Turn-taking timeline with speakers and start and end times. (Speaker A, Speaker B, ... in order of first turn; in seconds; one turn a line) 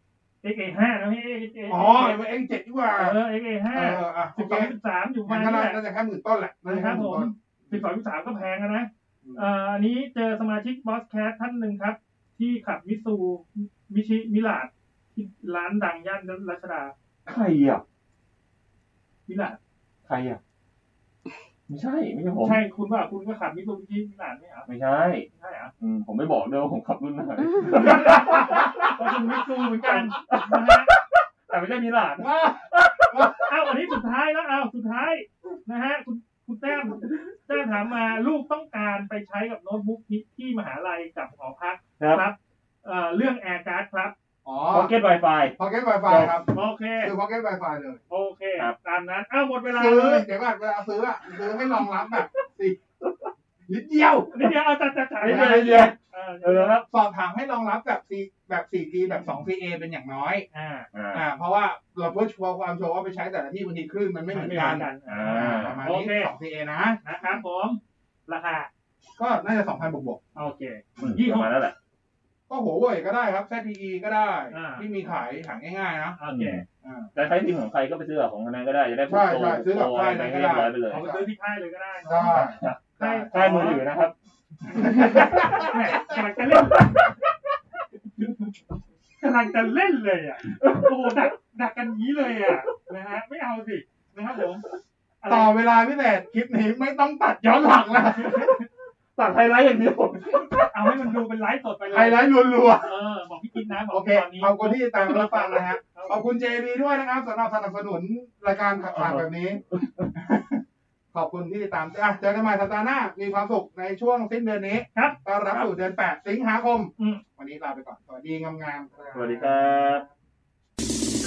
Speaker A: 0.4-2.2
Speaker B: 1.7-3.2
Speaker A: 3.0-5.8
Speaker B: 3.7-4.7
Speaker B: 5.2-7.8
Speaker A: 6.7-16.9
Speaker C: 17.2-17.8
Speaker A: 19.3-19.6
Speaker C: 20.1-20.4
Speaker C: 21.7-22.6
Speaker A: 22.4-24.7
Speaker C: 24.7-25.3
Speaker A: 25.3-25.7
Speaker C: 25.8-29.2
Speaker A: 27.6-30.9
Speaker B: 27.9-28.9
Speaker C: 29.9-33.5
Speaker B: 32.2-33.5
Speaker A: 33.5-44.1
Speaker C: 42.0-42.2
Speaker B: 44.4-44.9
Speaker C: 44.7-45.5
Speaker B: 45.6-46.5
Speaker C: 46.1-46.4
Speaker A: 46.5-47.1
Speaker B: 47.0-48.0
Speaker A: 48.1-50.2
Speaker B: 49.7-52.8
Speaker C: 53.0-53.3
Speaker B: 53.7-54.5
Speaker A: 54.3-56.8
Speaker B: 55.2-55.9
Speaker C: 55.2-56.8
Speaker B: 56.9-60.5
Speaker A: 60.5-60.9
Speaker C: 60.9-61.2
Speaker B: 61.1-67.0
Speaker A: 64.3-66.3
Speaker C: 65.1-65.8
Speaker A: 67.0-68.7
Speaker B: 69.2-70.2
Speaker A: 70.3-71.5
Speaker C: 71.0-71.7
Speaker B: 72.5-76.2
Speaker A: 74.5-74.9
Speaker A: 76.2-76.6
Speaker C: 76.3-76.6
Speaker B: 76.8-77.1
Speaker C: 77.1-81.1
Speaker B: 79.1-81.2
Speaker A: 80.9-83.8
Speaker B: 82.0-83.8
Speaker C: 82.3-82.8
Speaker C: 83.3-84.1
Speaker B: 84.7-86.2
Speaker A: 84.7-87.1
Speaker C: 84.7-85.8
Speaker C: 86.7-87.1
Speaker A: 89.2-94.6
Speaker C: 90.5-91.3
Speaker A: 95.2-95.6
Speaker B: 95.3-98.6
Speaker A: 98.1-98.6
Speaker C: 99.2-100.7
Speaker A: 100.6-106.2
Speaker B: 101.9-102.9
Speaker B: 103.9-109.6
Speaker C: 108.9-110.1
Speaker B: 110.1-120.1
Speaker C: 119.1-120.0